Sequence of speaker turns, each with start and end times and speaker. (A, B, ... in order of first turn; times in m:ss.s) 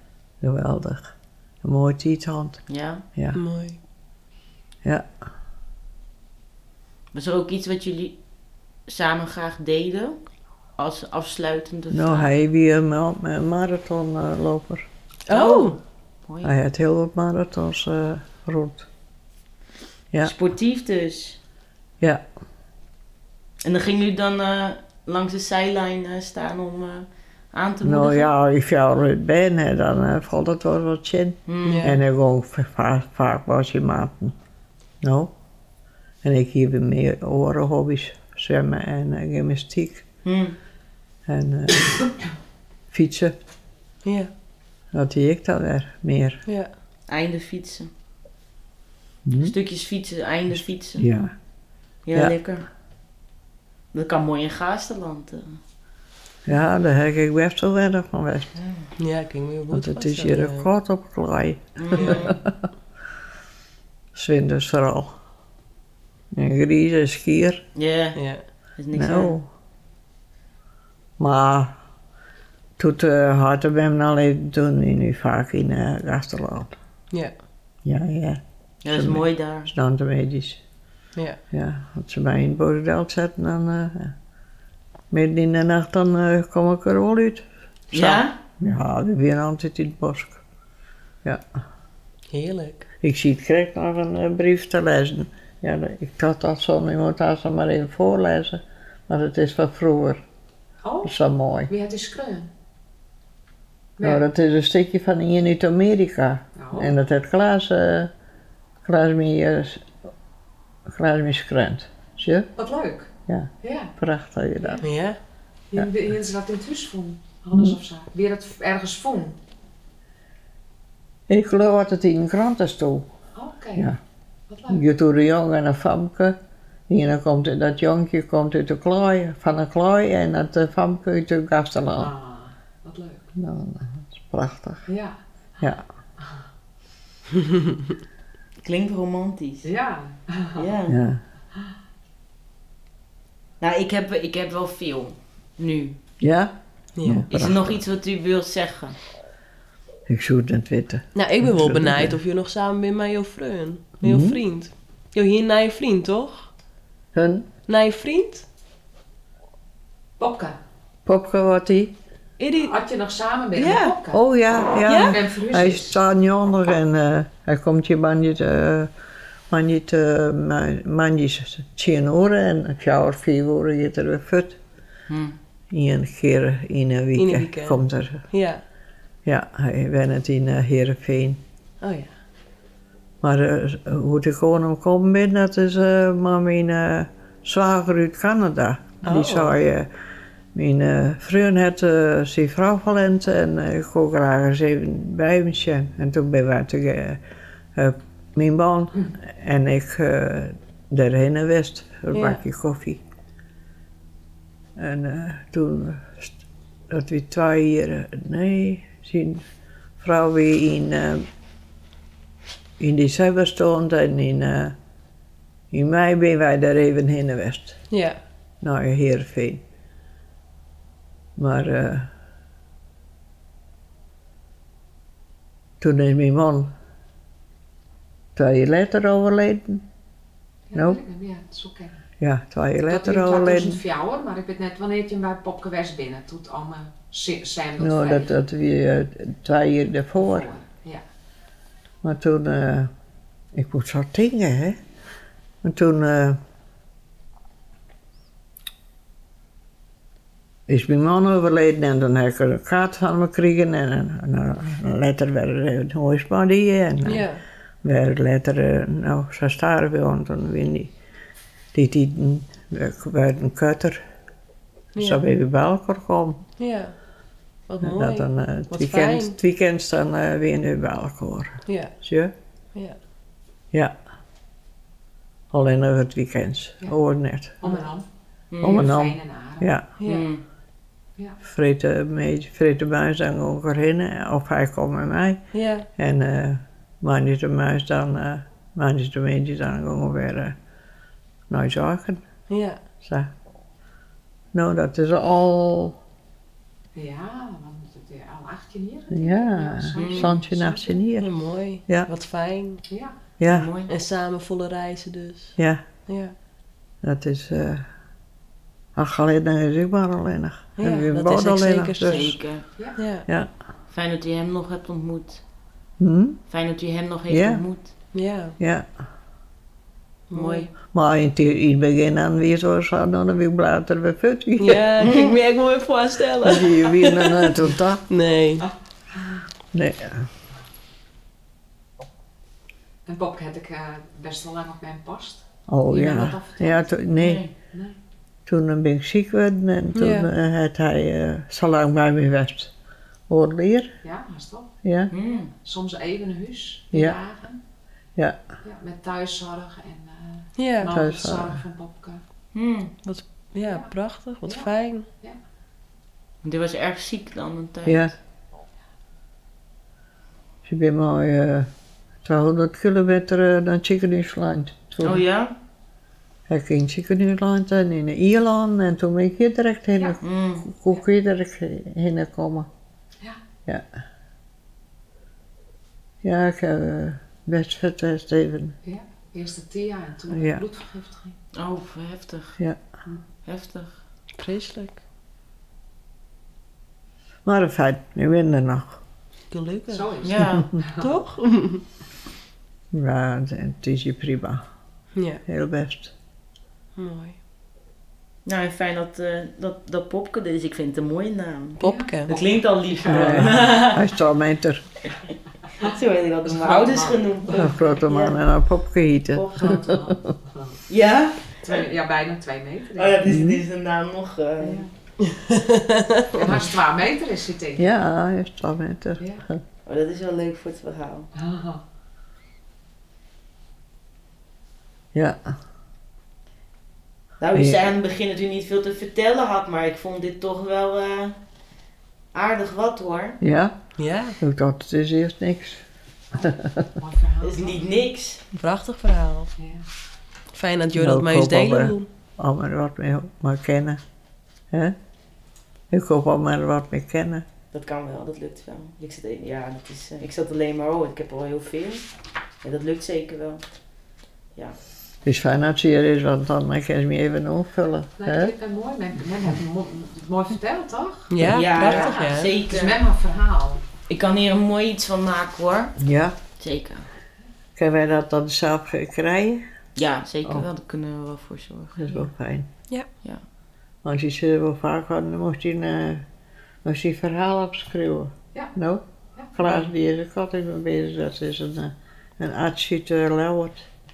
0:00.4-0:02.6 A
0:02.7-0:03.0 B
0:03.3-0:03.8 C
0:04.8-0:05.1 A
0:07.1-0:08.2 B
0:08.9-0:10.2 B
0:10.8-0:12.3 B
0:11.9-0:14.9 A
0:15.3-0:15.8 C
0:15.3-0:16.5 B
0:16.4-0:18.9 A
0:20.2-0:21.4 B
0:23.6-0:28.3 B
0:27.8-0:34.4 A
0:31.5-0:32.0 B
0:31.6-0:32.0 C
0:35.0-0:35.3 A
0:36.2-0:40.0 A
0:40.2-0:40.6 B
0:41.2-0:41.9 A
0:42.9-0:43.4 A
0:44.0-0:44.3 C
0:44.9-0:46.4 A
0:46.4-0:46.7 C
0:47.1-0:47.9 B
0:49.2-0:49.5 A
0:49.4-0:51.1 B
0:50.5-0:51.3 A
0:52.0-0:52.7 B
0:53.9-0:55.6 B
0:56.4-0:58.5 A
0:58.6-0:58.9 B
0:59.0-1:00.7 C
0:59.7-1:02.4 A
1:01.8-1:02.4 B
1:04.1-1:05.2 A
1:06.3-1:07.6 A
1:07.7-1:08.2 B
1:08.1-1:08.4 C
1:08.8-1:09.4 B
1:08.9-1:09.5 A
1:11.2-1:11.8 A
1:12.8-1:16.8 A
1:17.8-1:20.6 A
1:18.8-1:19.7 B
1:21.5-1:24.1 A
1:25.1-1:30.4 A
1:27.9-1:28.4 B
1:32.3-1:32.9 C
1:33.0-1:40.2 A
1:40.8-1:41.1 D
1:41.0-1:41.7 A
1:41.7-1:42.5 D
1:44.0-1:44.2 D
1:44.0-1:48.1 A
1:46.6-1:46.9 D
1:48.8-1:49.9 A
1:50.9-1:52.5 A
1:52.6-1:53.1 D
1:53.3-1:54.8 A
1:53.6-1:53.9 D
1:54.6-1:54.9 D
1:54.8-1:55.2 C
1:55.7-1:59.4 D
2:01.3-2:03.1 A
2:03.4-2:03.9 D
2:04.5-2:04.8 D
2:04.7-2:06.4 A
2:06.9-2:12.1 A
2:12.0-2:13.3 D
2:13.4-2:14.9 A
2:14.9-2:15.1 D
2:18.6-2:19.7 B
2:19.6-2:20.7 D
2:20.6-2:21.0 B
2:20.9-2:21.2 A
2:23.6-2:26.0 B
2:26.2-2:27.8 A
2:27.0-2:27.2 C
2:27.3-2:29.0 B
2:30.1-2:32.2 A
2:31.1-2:36.5 C
2:34.0-2:34.4 A
2:37.1-2:37.5 A
2:37.7-2:38.4 C
2:40.2-2:40.6 D
2:41.0-2:42.0 A
2:42.4-2:42.7 C
2:42.6-2:44.2 D
2:43.5-2:48.9 A
2:44.9-2:45.2 C
2:45.1-2:46.0 D
2:49.5-2:54.6 A
2:55.1-2:55.4 B
2:55.7-2:58.2 A
2:57.2-2:58.6 C
2:59.2-3:01.4 A
3:01.8-3:02.1 C
3:03.2-3:09.9 A
3:09.0-3:09.5 C
3:10.5-3:17.2 A
3:17.7-3:23.0 A
3:22.1-3:22.4 C
3:24.8-3:29.4 A
3:30.0-3:31.2 A
3:32.8-3:34.8 A
3:35.7-3:37.8 A
3:37.9-3:38.2 C
3:38.6-3:39.6 A
3:41.4-3:42.1 A
3:45.8-3:46.7 A
3:48.4-3:49.8 A
3:50.7-3:52.0 D
3:50.7-3:51.0 A
3:52.2-3:53.8 A
3:52.9-3:58.3 D
3:57.8-4:00.5 A
4:00.2-4:01.0 D
4:02.0-4:02.9 A
4:03.5-4:04.8 A
4:05.6-4:06.4 A
4:10.7-4:17.3 A
4:17.0-4:17.4 C
4:17.8-4:20.9 A
4:21.7-4:24.0 A
4:24.9-4:25.2 C
4:25.0-4:26.4 A
4:26.6-4:27.0 C
4:27.7-4:29.4 C
4:27.8-4:32.3 A
4:31.6-4:31.9 C
4:35.5-4:37.6 A
4:37.6-4:38.1 D
4:38.5-4:38.9 B
4:38.6-4:39.9 A
4:38.6-4:39.7 D
4:40.0-4:40.3 C
4:40.0-4:40.4 B
4:41.4-4:45.4 A
4:45.5-4:45.9 C
4:46.0-4:50.6 A
4:51.5-4:52.2 A
4:52.5-4:52.8 C
4:53.0-4:53.3 A
4:54.5-4:56.0 A
4:56.9-5:01.0 D
4:59.1-5:01.3 A
5:00.0-5:00.3 B
5:01.2-5:02.8 C
5:02.9-5:03.1 D
5:03.4-5:03.7 A
5:03.4-5:03.9 B
5:03.9-5:06.3 C
5:07.0-5:07.8 A
5:08.9-5:12.3 A
5:10.8-5:12.4 C
5:12.0-5:12.6 B
5:13.0-5:13.3 C
5:13.9-5:15.4 B
5:16.0-5:16.4 A
5:16.5-5:17.9 B
5:17.3-5:17.6 A
5:18.1-5:18.6 C
5:18.6-5:18.9 A
5:20.3-5:20.7 C
5:20.3-5:20.6 B
5:20.8-5:25.0 A
5:24.6-5:28.7 C
5:25.0-5:25.4 B
5:26.4-5:28.0 A
5:29.7-5:30.3 A
5:33.1-5:36.9 D
5:35.7-5:37.4 A
5:37.2-5:37.5 B
5:38.4-5:42.7 A
5:39.9-5:40.3 C
5:43.3-5:43.9 A
5:44.0-5:44.7 D
5:44.8-5:45.1 A
5:45.1-5:45.5 B
5:45.4-5:47.6 D
5:46.9-5:47.2 A
5:48.6-5:52.2 D
5:50.6-5:50.9 C
5:50.9-5:51.6 A
5:52.5-5:52.9 B
5:53.0-5:55.1 C
5:53.6-5:53.9 D
5:56.4-5:58.1 B
5:57.8-5:58.1 A
6:00.6-6:01.7 A
6:02.2-6:05.2 A
6:05.0-6:05.5 B
6:06.5-6:12.7 A
6:10.2-6:10.7 B
6:16.2-6:18.8 A
6:18.8-6:21.4 D
6:20.3-6:20.6 A
6:21.5-6:22.6 B
6:23.4-6:24.0 B
6:24.4-6:25.0 C
6:27.4-6:29.0 A
6:29.5-6:30.1 C
6:29.9-6:31.1 D
6:30.2-6:30.7 B
6:31.0-6:31.8 C
6:32.9-6:34.6 A
6:35.1-6:35.4 C
6:35.4-6:36.1 A
6:37.0-6:37.4 C
6:38.4-6:44.0 B
6:41.8-6:42.3 C
6:41.8-6:43.4 D
6:43.1-6:44.8 A
6:45.8-6:48.4 B
6:46.5-6:47.8 D
6:47.5-6:50.3 A
6:49.3-6:50.0 B
6:49.6-6:50.8 D
6:50.9-6:51.8 B
6:51.6-6:53.2 D
6:53.0-6:54.8 B
6:53.2-6:53.6 A
6:54.6-6:54.9 D
6:55.2-6:56.5 C
6:56.4-6:57.8 D
6:57.8-6:59.6 A
6:59.8-7:01.3 B
7:01.4-7:01.8 D
7:05.1-7:05.5 A
7:07.4-7:11.4 B
7:07.5-7:07.9 A
7:12.3-7:13.4 B
7:13.4-7:15.8 A
7:14.0-7:14.4 C
7:16.3-7:17.8 D
7:16.4-7:16.8 A
7:17.4-7:18.4 B
7:18.6-7:19.5 C
7:19.6-7:19.9 D
7:20.5-7:22.1 C
7:20.9-7:24.0 A
7:25.9-7:27.4 A
7:27.7-7:32.1 B
7:32.6-7:33.6 B
7:35.2-7:38.5 A
7:38.2-7:43.8 D
7:41.3-7:42.5 C
7:41.4-7:43.0 B
7:44.1-7:46.0 B
7:46.0-7:46.4 A
7:46.6-7:47.1 B
7:47.8-7:49.6 A
7:50.0-7:52.0 B
7:52.0-7:52.7 A
7:54.0-7:56.2 A
7:56.8-7:59.0 A
7:59.5-8:03.9 A